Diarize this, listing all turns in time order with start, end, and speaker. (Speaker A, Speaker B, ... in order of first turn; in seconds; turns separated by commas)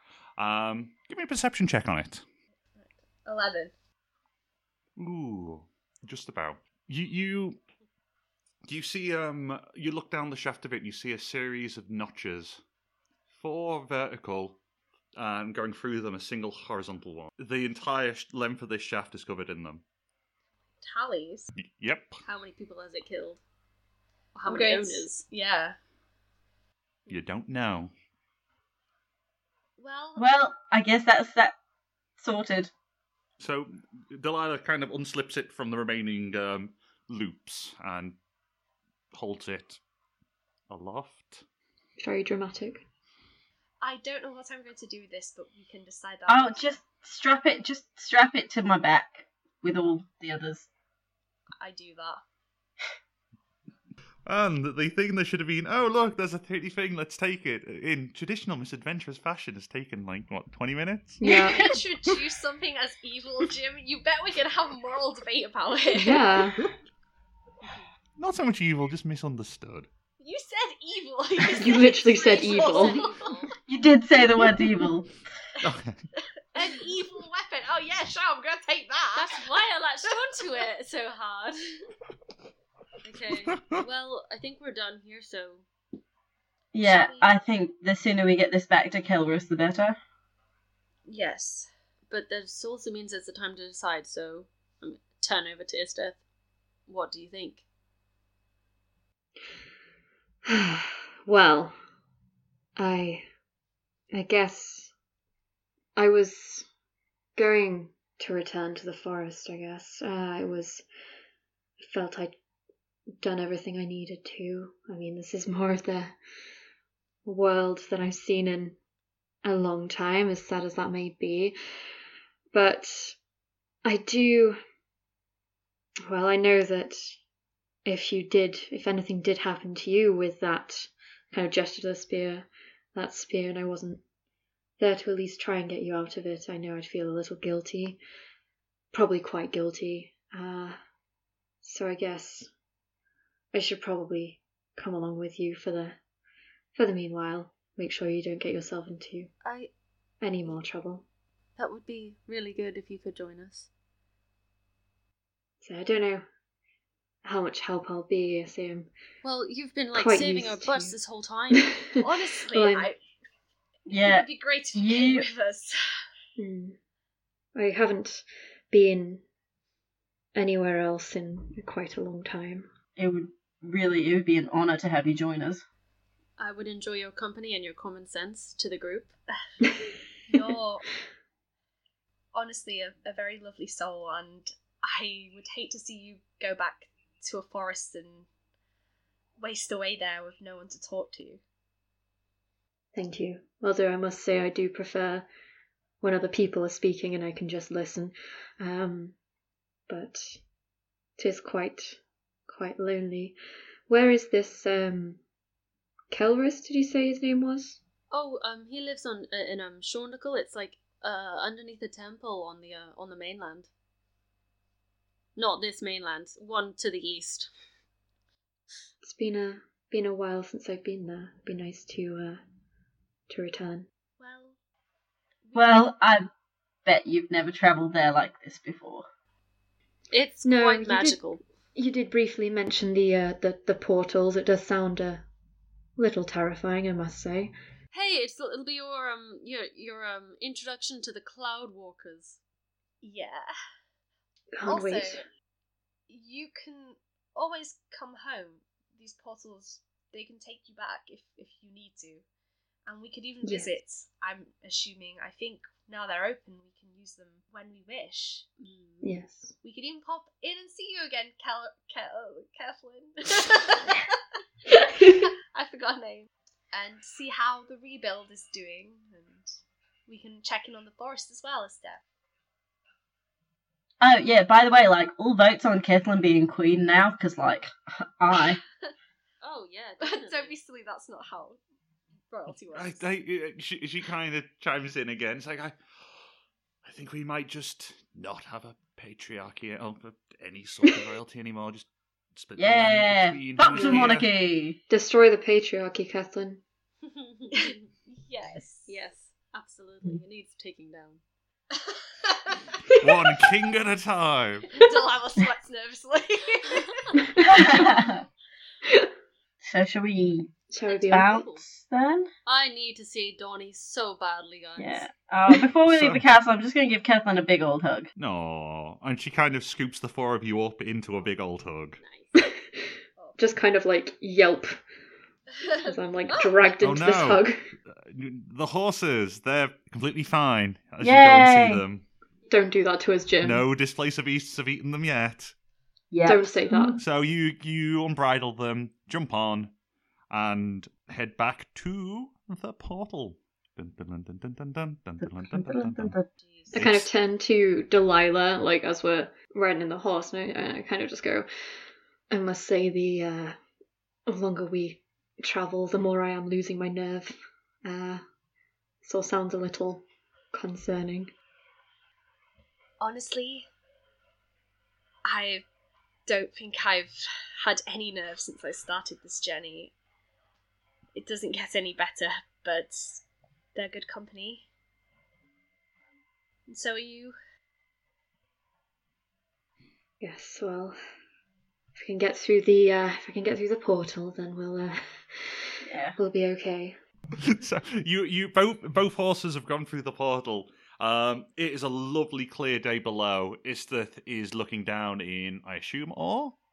Speaker A: 0.4-2.2, Speaker B: 3.3-3.7, Speaker A: 5.0-7.6, Speaker A: 8.7-12.6, Speaker A: 13.4-14.6, Speaker A: 15.2-19.8, Speaker B: 20.8-21.5, Speaker A: 21.6-22.2, Speaker C: 22.3-23.4, Speaker B: 24.4-25.8, Speaker C: 24.4-25.2, Speaker A: 27.1-27.9, Speaker B: 29.8-30.3, Speaker D: 30.2-31.6, Speaker D: 32.2-32.7, Speaker A: 33.4-38.2, Speaker A: 39.1-39.8, Speaker A: 40.7-41.4, Speaker E: 42.0-42.8, Speaker B: 43.8-46.7, Speaker D: 46.3-50.7, Speaker B: 51.6-52.2, Speaker A: 54.3-61.7, Speaker E: 61.2-61.6, Speaker B: 61.2-66.3, Speaker E: 66.0-66.6, Speaker A: 68.2-69.9, Speaker B: 70.2-73.2, Speaker E: 71.5-73.0, Speaker C: 72.1-73.5, Speaker D: 73.7-75.1, Speaker A: 75.6-76.0, Speaker B: 76.5-79.4, Speaker C: 79.1-81.6, Speaker B: 80.0-80.4, Speaker C: 83.0-85.6, Speaker D: 86.7-90.0, Speaker B: 86.8-87.3, Speaker B: 91.1-91.7, Speaker C: 92.1-96.2, Speaker C: 96.9-97.6, Speaker E: 100.5-101.8, Speaker E: 102.8-103.2, Speaker E: 104.1-104.9, Speaker E: 106.0-106.7, Speaker E: 107.4-110.8, Speaker E: 111.9-112.4, Speaker E: 113.2-116.2, Speaker E: 117.3-118.8, Speaker E: 119.4-121.6, Speaker E: 122.5-123.2, Speaker E: 123.8-124.6, Speaker E: 126.1-127.1, Speaker E: 127.9-134.0, Speaker E: 134.8-138.0, Speaker E: 138.9-140.8, Speaker E: 141.6-142.5, Speaker E: 143.5-146.0, Speaker E: 146.8-149.3, Speaker C: 149.4-149.7, Speaker E: 150.2-151.1, Speaker C: 151.6-153.7, Speaker E: 155.6-156.2, Speaker E: 157.2-158.9, Speaker C: 159.2-162.1, Speaker E: 159.9-161.0, Speaker B: 162.0-163.0, Speaker E: 162.5-162.9, Speaker D: 163.9-165.3, Speaker B: 164.0-165.7, Speaker E: 166.4-166.8, Speaker E: 167.6-169.2, Speaker E: 170.4-172.7, Speaker D: 173.0-175.6, Speaker C: 176.4-179.1, Speaker B: 180.3-180.8, Speaker B: 182.3-188.3, Speaker B: 189.4-191.4, Speaker E: 192.9-195.3, Speaker E: 196.0-199.2, Speaker E: 199.9-200.4, Speaker E: 201.2-203.4, Speaker E: 203.9-205.2, Speaker E: 206.1-207.8, Speaker C: 208.1-213.7, Speaker C: 215.4-217.5, Speaker E: 219.0-222.4, Speaker E: 223.3-223.9, Speaker B: 224.2-224.5, Speaker B: 225.5-226.0, Speaker D: 225.6-226.3, Speaker D: 226.9-229.1, Speaker C: 230.1-231.4, Speaker E: 230.4-231.2, Speaker E: 231.8-235.2, Speaker E: 236.0-237.5, Speaker C: 237.9-242.4, Speaker B: 243.0-243.5, Speaker E: 244.5-245.2, Speaker B: 244.7-245.2, Speaker B: 246.1-252.2, Speaker B: 252.9-258.4, Speaker E: 253.4-253.7, Speaker C: 258.6-259.1, Speaker E: 259.0-259.5, Speaker B: 259.6-264.1, Speaker B: 264.7-269.5, Speaker B: 270.1-272.0, Speaker D: 274.0-278.6, Speaker C: 279.4-280.6, Speaker B: 280.0-281.6, Speaker B: 282.3-283.0, Speaker A: 282.7-285.8, Speaker A: 286.8-294.3, Speaker D: 292.6-294.8, Speaker E: 294.9-296.6, Speaker C: 297.1-297.9, Speaker B: 297.5-298.9, Speaker C: 298.9-301.2, Speaker A: 303.0-304.7, Speaker B: 304.7-306.9, Speaker E: 307.3-307.8, Speaker D: 307.4-308.2, Speaker D: 309.6-310.5, Speaker E: 310.7-311.3, Speaker C: 310.9-311.6, Speaker D: 311.1-312.3, Speaker C: 312.5-315.1, Speaker D: 314.8-318.1, Speaker A: 315.9-316.2, Speaker A: 318.2-322.0, Speaker C: 322.0-322.4, Speaker E: 323.4-324.8, Speaker E: 325.8-327.6, Speaker A: 326.8-332.1, Speaker D: 331.0-331.8, Speaker E: 332.5-333.6, Speaker A: 333.4-335.5, Speaker D: 336.1-337.0, Speaker E: 336.3-337.0, Speaker A: 337.0-339.7, Speaker A: 340.3-346.2, Speaker D: 345.3-346.3, Speaker C: 346.4-346.7, Speaker A: 346.7-347.1, Speaker E: 346.7-351.5, Speaker E: 352.3-353.6, Speaker E: 354.3-358.2, Speaker E: 359.1-361.3, Speaker B: 363.0-363.7, Speaker B: 365.3-365.6, Speaker B: 366.3-369.9, Speaker B: 371.2-373.2, Speaker B: 373.8-374.6, Speaker B: 376.7-377.4, Speaker E: 380.2-381.0, Speaker E: 382.0-385.6, Speaker D: 385.9-386.2, Speaker E: 386.2-387.0, Speaker A: 387.5-396.6